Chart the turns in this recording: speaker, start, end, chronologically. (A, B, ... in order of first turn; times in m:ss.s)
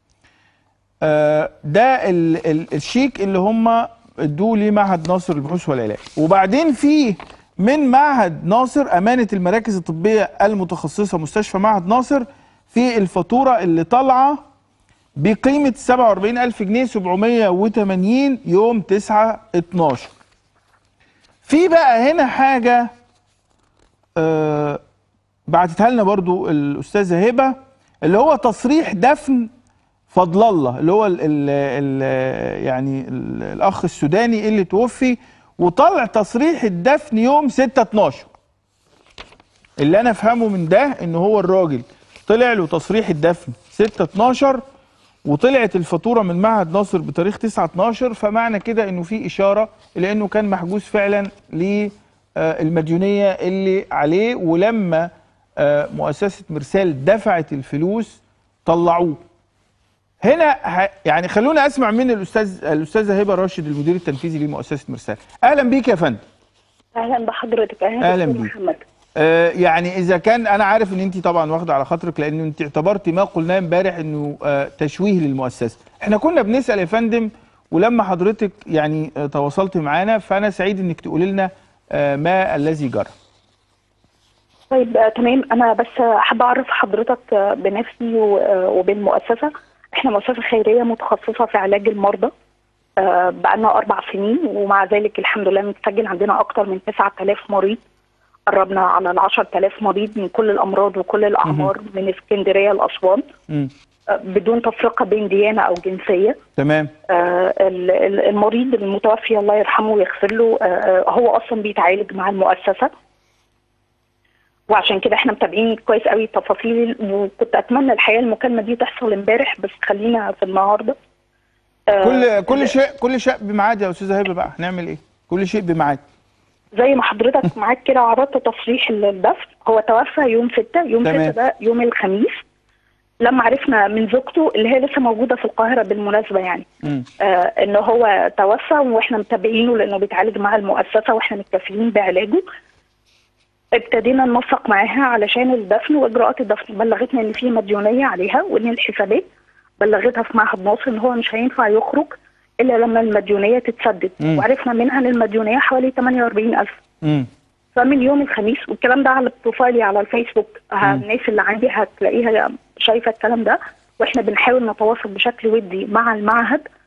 0:01.0-0:14.4 A
0:15.2-0:20.1 A
0:21.4-0:22.9 A
0:24.2-0:24.8 A
0:25.5-0:29.5 A
0:30.1-0:38.3 A
0:39.8-0:44.6 A
0:45.2-0:59.2 A
1:00.2-1:06.2 A
1:06.9-1:08.8 B
1:08.0-1:08.5 A
1:09.2-1:23.1 A
1:24.7-1:32.3 B
1:33.0-1:37.8 B
1:38.5-1:43.2 B
1:41.4-1:41.7 A
1:44.1-1:46.4 B
1:46.6-1:46.9 A
1:47.1-1:52.9 B
1:54.7-2:00.9 B
2:01.9-2:02.7 B
2:02.0-2:06.0 A
2:06.7-2:12.4 B
2:11.0-2:11.3 A
2:13.2-2:16.6 B
2:17.2-2:22.4 B
2:23.7-2:29.2 B
2:29.8-2:36.7 B
2:37.0-2:37.3 A
2:37.8-2:46.6 B